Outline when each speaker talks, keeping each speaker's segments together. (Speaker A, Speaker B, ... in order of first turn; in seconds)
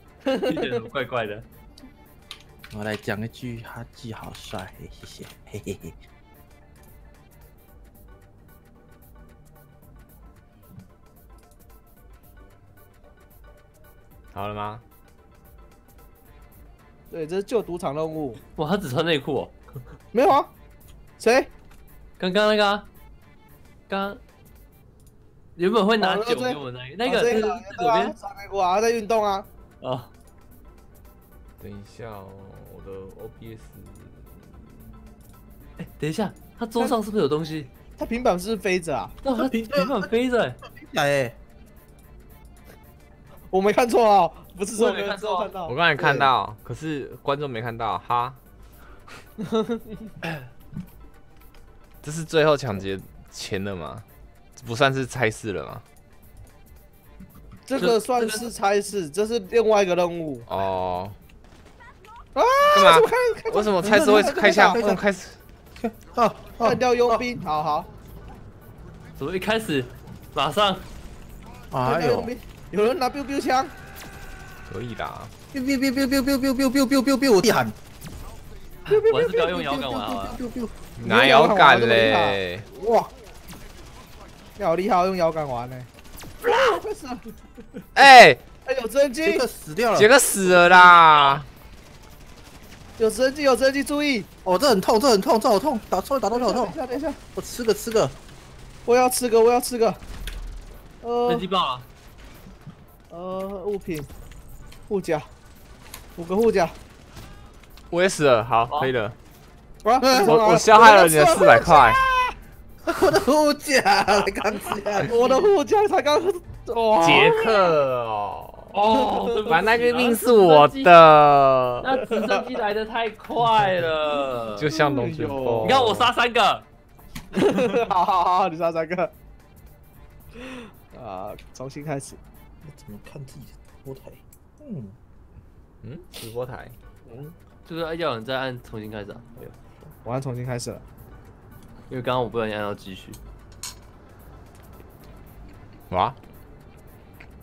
Speaker A: 0.3-0.8, 17.1-18.4, 20.1-20.5, 21.2-21.5, 26.0-29.5, 38.0-39.2, 43.5-46.3, 49.4-50.1, 57.7-60.5, 62.4-65.0, 66.6-67.9, 71.8-73.7, 81.0-82.4, 84.6-85.9, 86.4-87.3, 88.7-89.5, 93.0-94.3, 96.3-97.2, 98.9-100.0, 101.0-101.5, 103.1-104.1, 104.9-105.3, 106.2-106.8, 109.8-112.2, 115.0-117.7, 118.9-119.4, 124.7-125.8, 127.3-129.1, 130.4-132.2, 140.0-140.8
Speaker B: 0.4-1.5, 18.6-19.6, 22.2-22.9, 23.9-24.2, 25.6-28.1, 29.8-30.1, 35.8-37.7, 39.2-40.6, 44.7-45.5, 57.8-58.5, 69.2-70.8, 78.9-80.4, 101.3-101.9, 115.0-115.5, 118.7-120.9, 121.8-124.7, 125.6-126.7, 127.4-127.8, 137.7-139.3, 141.9-143.2
Speaker C: 2.7-6.0, 39.4-40.1, 40.6-41.4, 63.8-65.0, 65.8-67.2, 71.7-72.3, 75.5-77.8, 78.9-80.9, 82.7-83.1, 89.2-90.1, 94.5-96.8, 97.3-98.2, 110.0-110.4, 112.9-115.2, 132.6-135.0
Speaker D: 14.3-14.8, 31.6-34.7, 45.7-48.4, 52.0-54.0, 54.6-55.8, 60.5-61.2, 62.7-65.4, 74.7-75.3, 81.0-82.7, 88.0-88.4, 90.0-91.5, 107.9-109.2, 110.2-112.0, 117.0-118.8, 119.5-122.0, 124.6-126.1, 135.8-136.8, 145.9-146.2